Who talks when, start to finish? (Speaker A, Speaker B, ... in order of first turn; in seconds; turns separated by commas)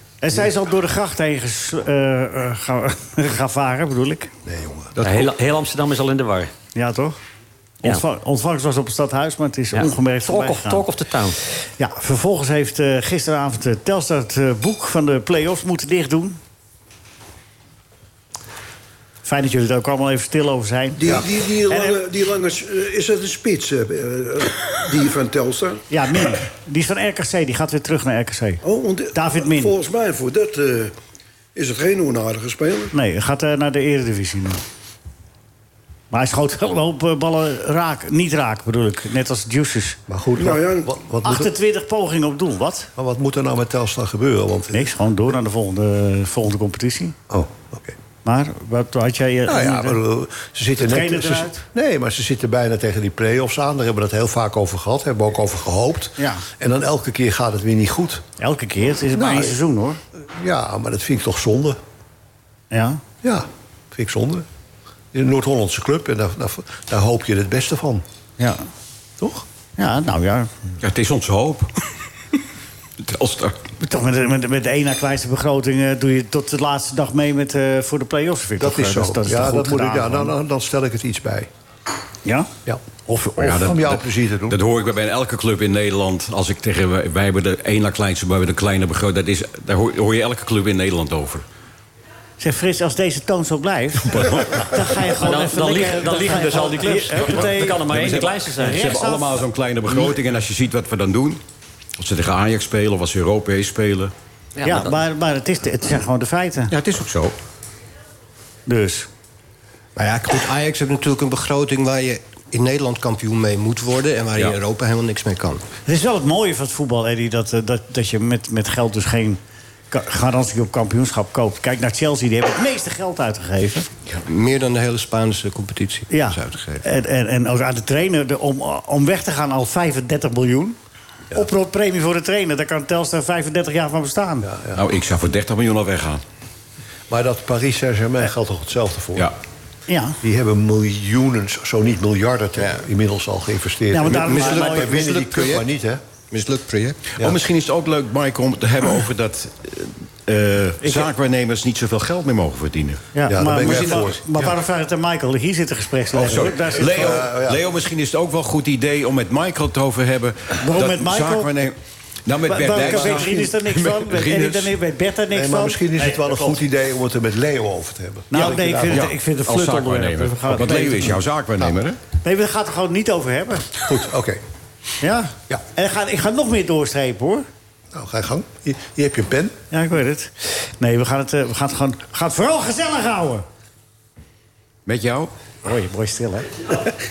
Speaker A: 0.2-4.3, Speaker B: 4.4-4.9, Speaker C: 5.0-5.3, Speaker D: 5.0-6.5, Speaker A: 6.7-7.2, Speaker A: 7.8-10.8, Speaker D: 9.7-11.4, Speaker A: 11.8-16.4, Speaker A: 19.2-22.0, Speaker E: 21.0-25.8, Speaker A: 25.9-28.6, Speaker E: 28.6-30.9, Speaker A: 29.1-29.7, Speaker E: 31.5-32.9, Speaker A: 32.9-34.6, Speaker A: 36.1-40.0, Speaker B: 40.1-41.5, Speaker E: 40.4-40.9, Speaker A: 41.2-42.9, Speaker B: 43.0-44.9, Speaker A: 44.7-47.1, Speaker B: 47.3-48.0, Speaker A: 48.2-50.0, Speaker B: 49.5-58.2, Speaker A: 50.8-51.6, Speaker A: 56.2-56.4, Speaker A: 58.4-60.0, Speaker B: 59.1-59.6, Speaker B: 60.1-61.8, Speaker A: 62.7-63.0, Speaker B: 63.2-64.5, Speaker B: 65.1-68.0, Speaker A: 68.4-68.6, Speaker B: 69.2-69.4, Speaker A: 69.8-70.5, Speaker C: 70.8-71.7, Speaker C: 73.0-73.6, Speaker A: 73.8-80.3, Speaker B: 78.6-81.5, Speaker A: 82.2-82.5, Speaker A: 83.1-83.6, Speaker B: 83.4-84.6, Speaker C: 83.4-91.4, Speaker A: 92.4-98.0, Speaker C: 94.0-94.8, Speaker D: 95.2-98.9, Speaker B: 96.2-97.4, Speaker C: 97.9-101.4, Speaker A: 98.6-99.4, Speaker C: 102.0-104.1, Speaker D: 104.5-105.0, Speaker A: 104.6-106.7, Speaker C: 106.7-107.3, Speaker A: 108.7-109.1, Speaker F: 110.0-115.6, Speaker A: 115.8-119.4, Speaker A: 119.9-123.9, Speaker F: 124.1-126.8, Speaker A: 126.1-130.8, Speaker A: 131.3-134.5, Speaker B: 134.4-134.8, Speaker C: 134.7-136.2, Speaker B: 137.1-139.3, Speaker A: 139.9-140.2, Speaker B: 140.2-146.0, Speaker F: 142.6-142.8, Speaker A: 143.9-144.9, Speaker F: 144.1-145.7, Speaker F: 146.3-147.1, Speaker C: 147.2-154.6, Speaker A: 150.8-151.1, Speaker A: 153.1-157.2, Speaker B: 153.3-154.2, Speaker C: 156.2-161.7, Speaker B: 156.8-157.6, Speaker A: 160.6-161.5, Speaker C: 162.2-164.7, Speaker A: 162.4-166.6, Speaker B: 162.7-163.5, Speaker B: 165.3-169.1, Speaker A: 168.3-171.2, Speaker C: 168.9-172.0, Speaker A: 172.2-173.7, Speaker B: 173.9-174.4, Speaker A: 175.0-177.4, Speaker B: 177.9-179.5, Speaker A: 179.7-183.4, Speaker C: 184.8-185.3, Speaker A: 185.6-186.7